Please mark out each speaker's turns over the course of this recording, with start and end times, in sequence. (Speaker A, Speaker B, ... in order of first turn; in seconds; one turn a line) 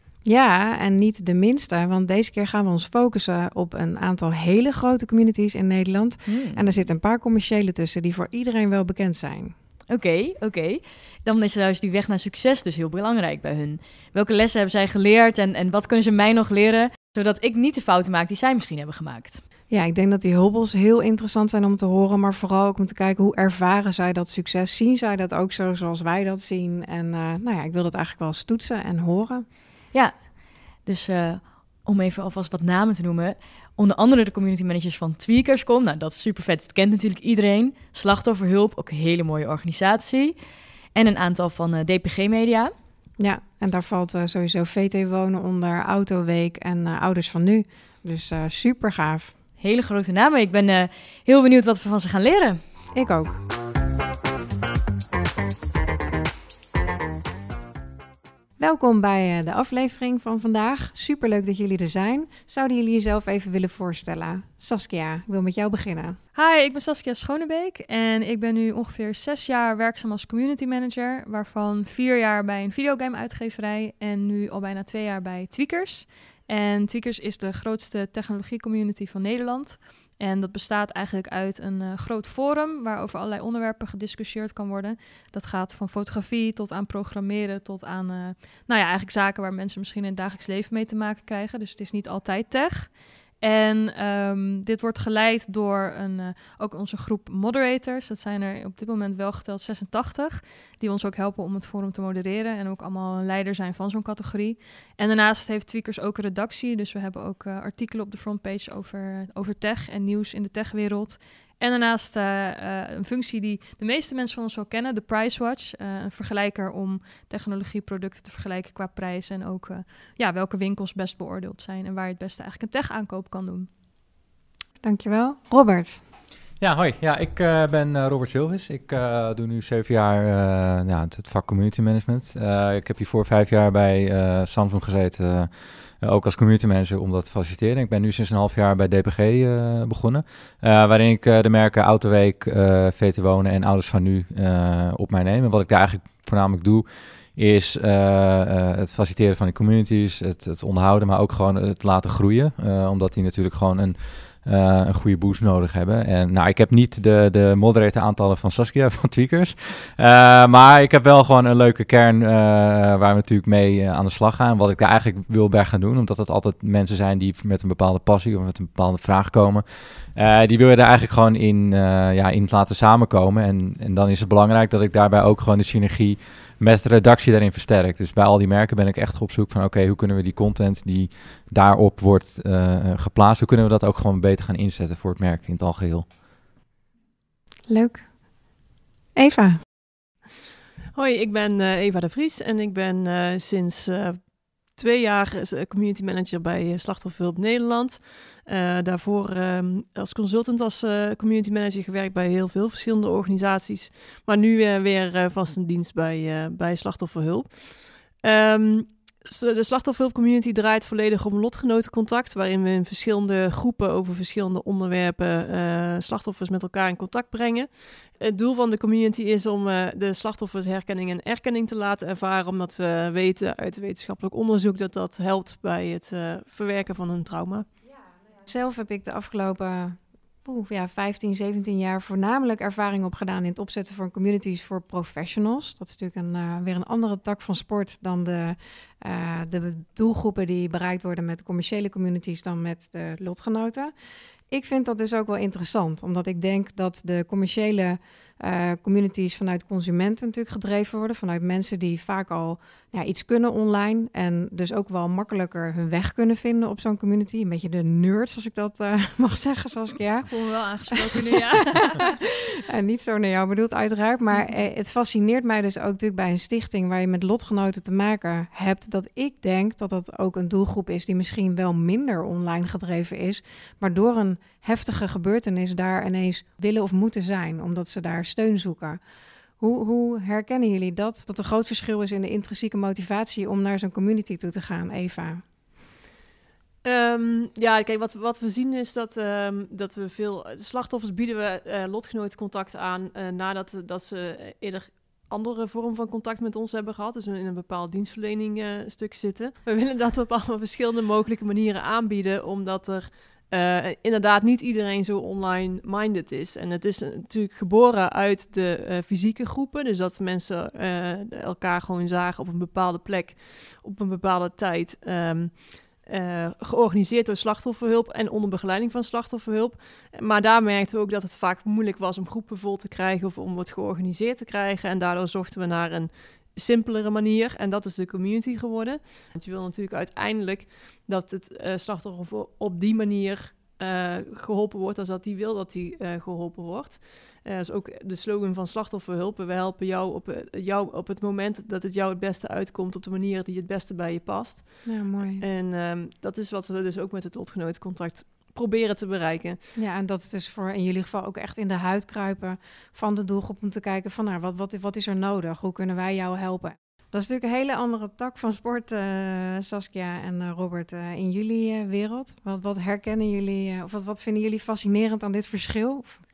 Speaker A: 0.2-9.6
Speaker B: 6.3-6.8
Speaker B: 9.9-19.4
Speaker A: 19.7-29.5
Speaker B: 29.9-42.7
Speaker A: 43.2-49.4
Speaker B: 49.6-52.6
Speaker A: 52.9-53.4
Speaker A: 58.6-66.2
Speaker C: 66.3-123.7
Speaker A: 124.8-126.0
Speaker D: 126.6-186.2
Speaker A: 187.7-188.5
Speaker A: 189.2-189.6
Speaker E: 190.9-227.7
Speaker A: 227.9-243.9
Speaker A: 244.5-260.9
Speaker C: 260.2-262.1
Speaker A: 262.6-279.0
Speaker A: 279.6-285.4
Speaker E: 286.8-349.6
Speaker A: 344.9-345.4
Speaker A: 349.8-366.2